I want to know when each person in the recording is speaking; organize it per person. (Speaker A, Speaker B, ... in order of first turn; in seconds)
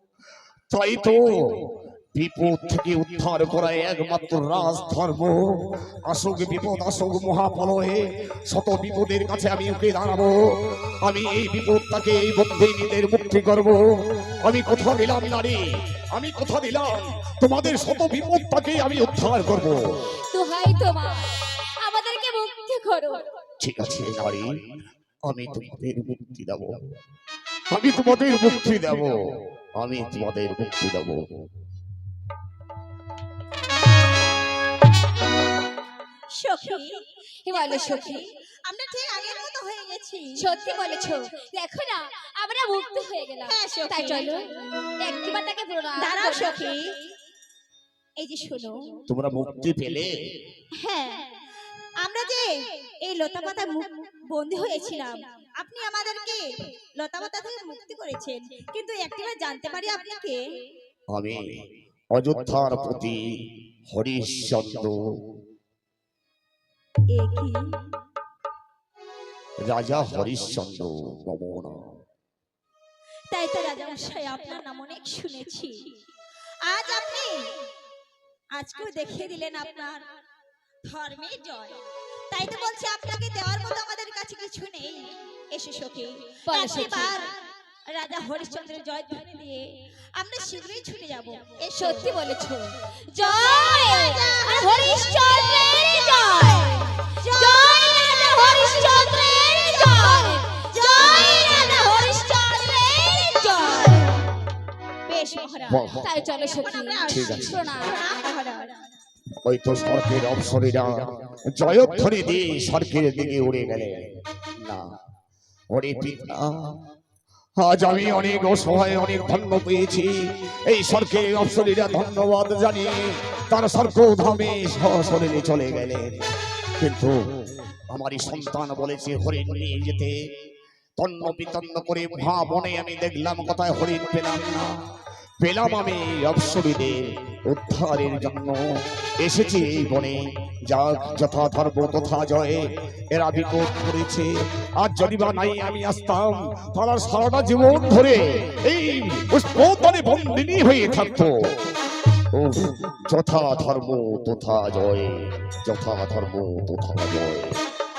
Speaker A: 0.7-10.3, 11.0-15.6, 16.1-19.8, 23.6-24.5, 25.3-26.7, 27.7-29.1, 29.8-31.3, 49.1-50.1, 61.1-61.5, 62.1-63.2, 63.9-65.0, 69.6-71.8, 105.7-106.1, 107.1-107.6, 109.4-110.9, 111.5-114.0, 115.7-116.7, 117.6-120.1, 120.7-126.2, 126.8-127.1, 127.9-130.1, 131.0-134.7, 135.4-138.6, 139.2-140.2, 140.7-142.6, 143.1-151.3, 152.3-157.6
Speaker B: 20.3-23.4, 37.5-38.2, 40.4-46.6, 86.5-87.1, 91.8-102.3, 103.4-104.0, 106.0-107.9
Speaker C: 36.3-40.5, 43.5-44.4, 46.0-46.8, 48.2-49.0, 50.8-51.3, 52.0-52.5, 53.1-56.4, 57.0-60.4, 67.2-67.6, 73.3-75.9, 76.7-77.5, 78.6-80.0, 80.9-81.8, 82.3-87.3, 87.9-89.6, 90.2-92.1, 93.2-96.3, 97.1-104.2, 105.1-105.8, 106.5-108.9